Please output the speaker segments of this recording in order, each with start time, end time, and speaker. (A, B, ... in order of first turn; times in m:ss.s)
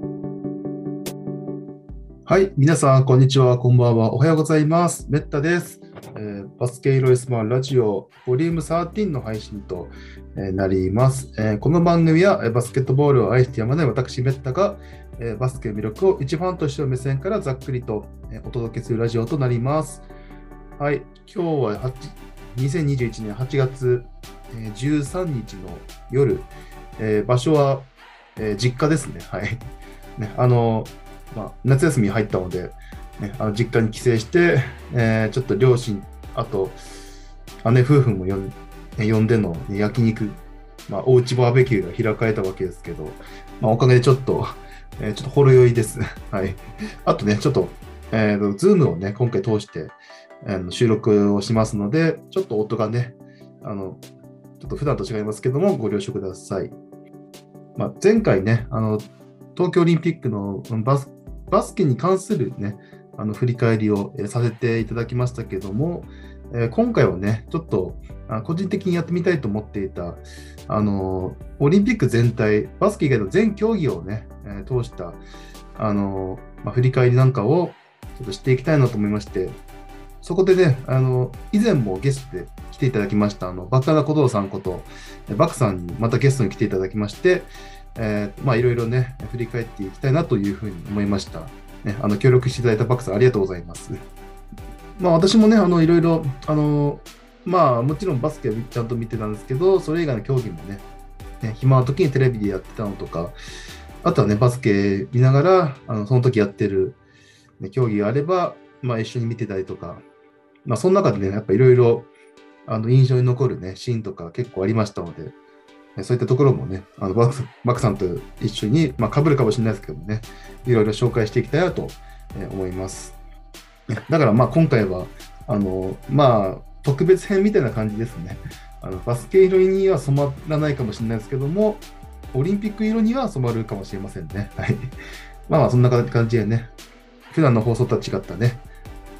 0:02.2-0:20.0 A
0:20.8-0:29.5 A
0:30.2-0:36.8 A
0:37.6-0:54.0 A
0:54.6-0:56.7 A
0:57.8-1:15.2 A
1:15.8-1:19.6 A
1:20.2-1:34.0 A
1:35.0-1:40.8 A
1:41.4-1:43.3 A
1:44.0-1:47.0 A
1:47.6-1:50.0 A
1:50.6-1:52.1 A
1:52.7-1:55.3 A
1:56.0-2:03.2 A
2:03.9-2:14.9 A
2:15.5-2:16.7 A
2:17.3-2:18.6 A